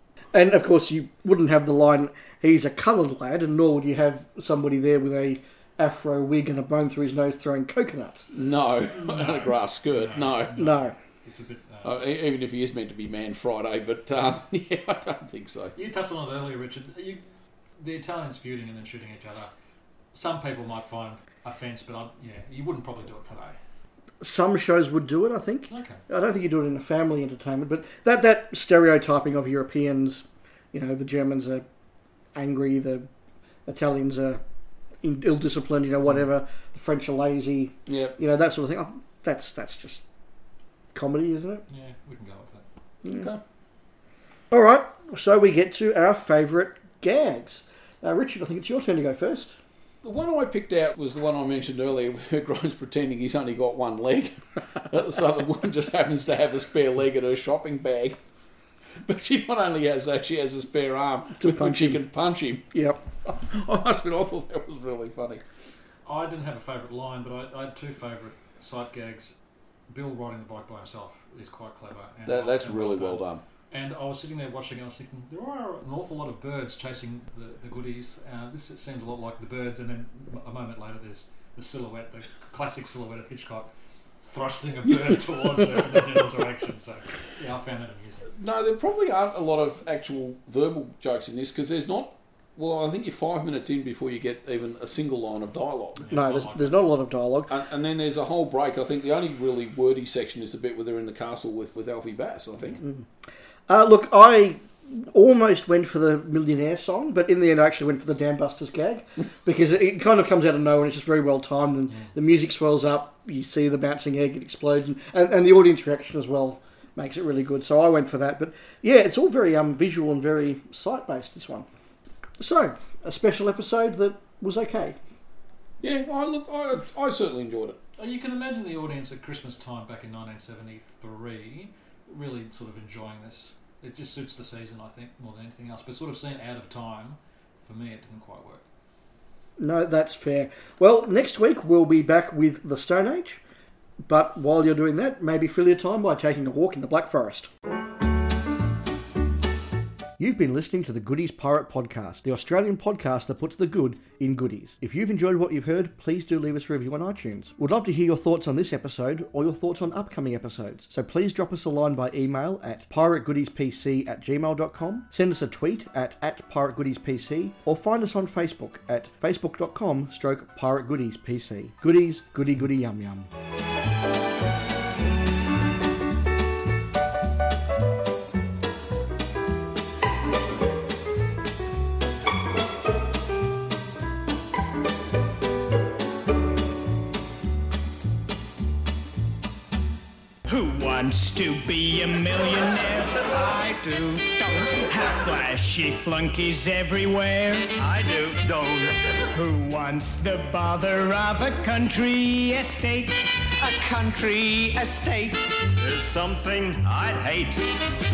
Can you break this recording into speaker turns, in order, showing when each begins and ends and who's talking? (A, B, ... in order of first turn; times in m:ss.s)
0:00.3-0:08.3 A
0:08.3-0:10.7 B
0:08.9-0:12.0 C
0:10.5-0:10.9 A
0:11.8-0:15.7 B
0:15.7-0:17.2 C
0:17.8-0:19.5 C
0:20.1-0:23.6 C
0:24.2-0:31.6 A
0:25.7-0:26.0 C
0:32.3-0:33.1 A
0:33.6-0:34.4 A
0:35.0-0:40.0 A
0:37.9-0:38.2 B
0:40.9-0:41.6 A
0:41.7-0:42.6 C
0:43.1-0:43.4 B
0:44.5-0:49.5 A
0:50.0-0:58.2 B
0:59.0-1:02.7 B
1:01.4-1:02.0 A
1:02.7-1:03.0 A
1:03.2-1:05.4 B
1:06.0-1:09.3 C
1:09.9-1:23.7 C
1:12.3-1:13.4 B
1:24.2-1:28.3 C
1:28.4-1:36.0 B
1:36.0-1:36.8 C
1:36.1-1:37.5 A
1:37.5-1:42.8 B
1:43.7-2:01.6 A
2:02.4-2:05.0 A
2:05.8-2:07.8 B
2:08.0-2:18.6 C
2:19.6-2:23.4 A
2:24.0-2:27.5 A
2:30.2-2:53.3 A
3:10.4-3:27.8 D